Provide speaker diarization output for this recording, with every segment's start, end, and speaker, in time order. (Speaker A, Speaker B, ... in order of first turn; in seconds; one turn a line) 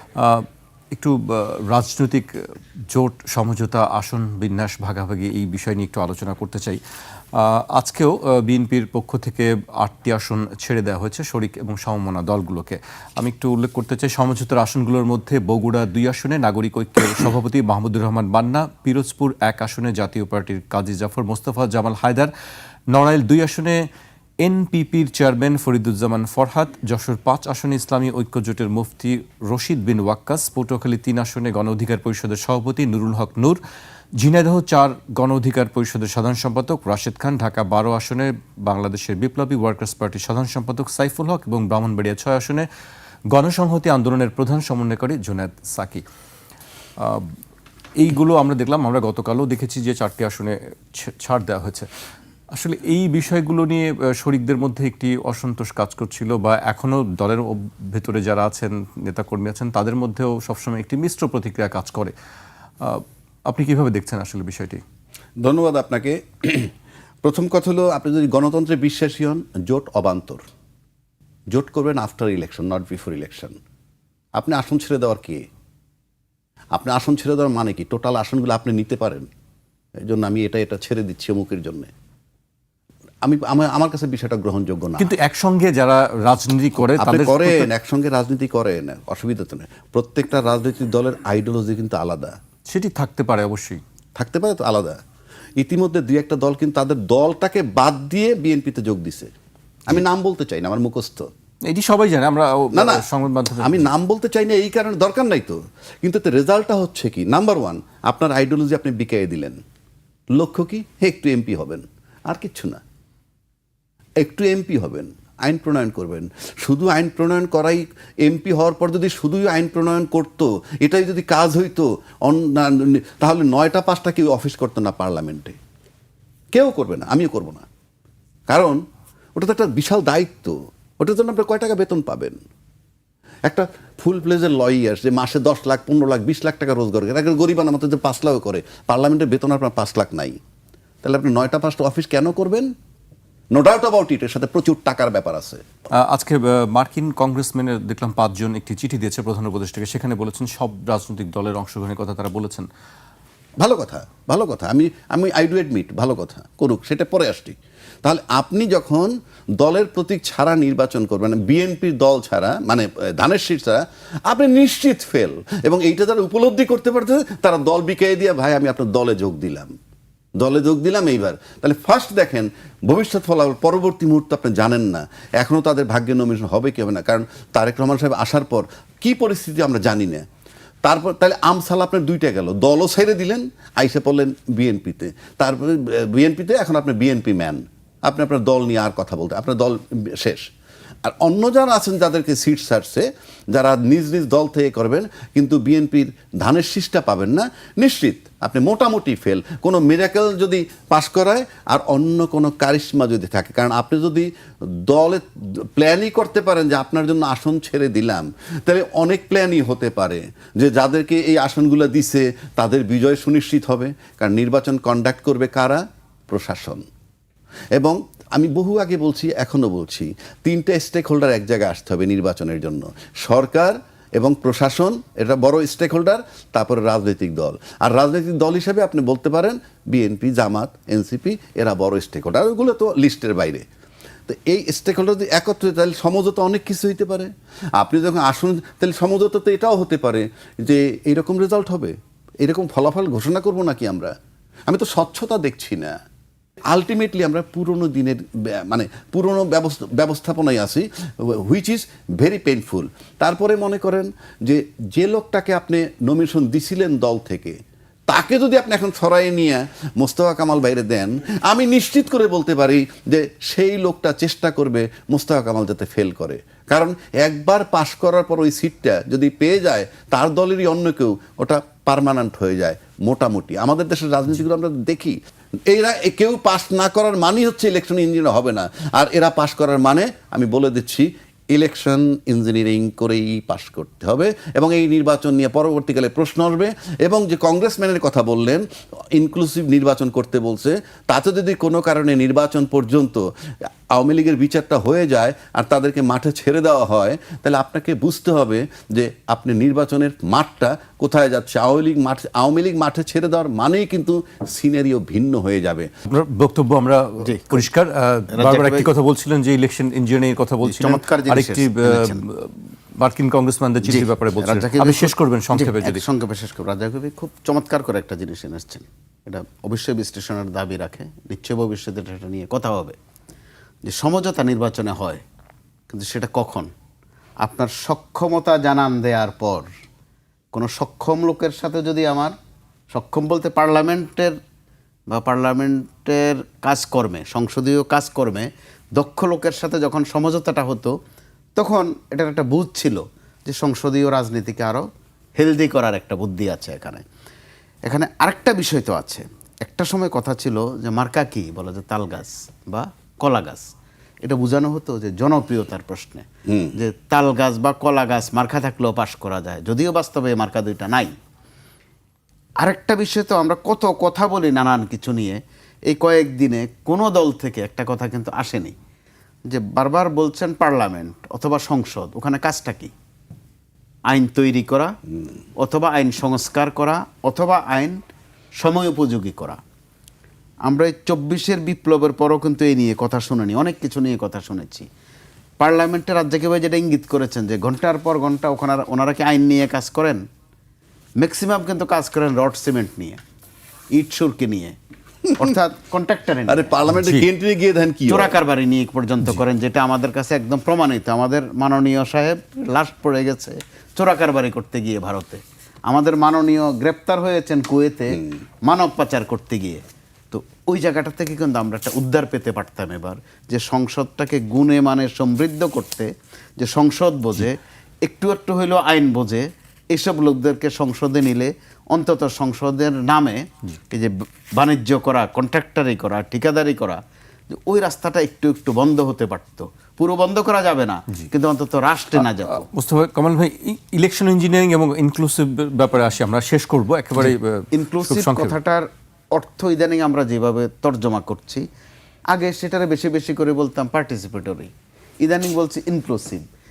Speaker A: 0.1-6.8
Speaker A: 7.3-22.3
Speaker A: 22.9-23.9
Speaker A: 24.4-33.6
Speaker A: 34.1-42.7
Speaker A: 43.3-46.0
Speaker A: 47.0-47.3
Speaker A: 48.0-51.9
Speaker A: 52.5-62.1
Speaker A: 62.8-64.8
Speaker B: 65.4-66.7
Speaker B: 67.2-70.4
Speaker B: 71.5-73.6
Speaker B: 74.3-75.5
Speaker B: 76.7-79.3
Speaker B: 80.0-81.9
Speaker B: 83.2-85.1
Speaker A: 85.0-87.7
Speaker B: 86.9-92.4
Speaker A: 92.7-93.8
Speaker B: 94.2-95.0
Speaker B: 95.6-99.3
Speaker B: 99.9-101.3
Speaker A: 101.7-103.9
Speaker B: 102.7-103.0
Speaker B: 103.6-109.6
Speaker B: 110.3-112.8
Speaker B: 114.2-125.6
Speaker B: 126.5-127.6
Speaker B: 128.5-128.8
Speaker B: 129.3-132.4
Speaker B: 133.4-140.4
Speaker B: 141.0-142.7
Speaker B: 143.5-145.6
Speaker A: 145.9-152.7
Speaker B: 153.6-169.7
Speaker B: 170.4-180.2
Speaker B: 180.8-190.5
Speaker B: 191.0-216.8
Speaker B: 217.7-233.7
Speaker B: 234.2-244.1
Speaker B: 244.7-245.9
Speaker B: 246.7-257.6
Speaker B: 258.1-305.9
Speaker A: 306.1-316.0
Speaker C: 307.2-307.6
Speaker C: 308.3-308.9
Speaker C: 310.6-312.2
Speaker C: 313.8-322.9
Speaker C: 323.8-325.2
Speaker C: 325.9-326.7
Speaker C: 327.4-329.7
Speaker C: 330.5-332.3
Speaker C: 332.9-334.4
Speaker C: 335.1-340.9
Speaker C: 341.6-344.9
Speaker C: 345.4-347.0
Speaker C: 347.8-353.7
Speaker C: 354.2-361.1
Speaker B: 356.5-356.8
Speaker C: 362.6-368.7
Speaker C: 369.5-372.9
Speaker C: 374.1-374.9
Speaker C: 375.6-378.0
Speaker C: 378.6-379.6
Speaker C: 380.6-384.9
Speaker C: 385.6-390.2
Speaker C: 391.2-393.2
Speaker C: 393.9-394.8
Speaker C: 395.4-396.8
Speaker B: 396.5-398.4
Speaker A: 396.9-397.2
Speaker C: 398.1-432.6
Speaker A: 432.2-438.6
Speaker C: 437.2-441.6
Speaker C: 442.3-446.4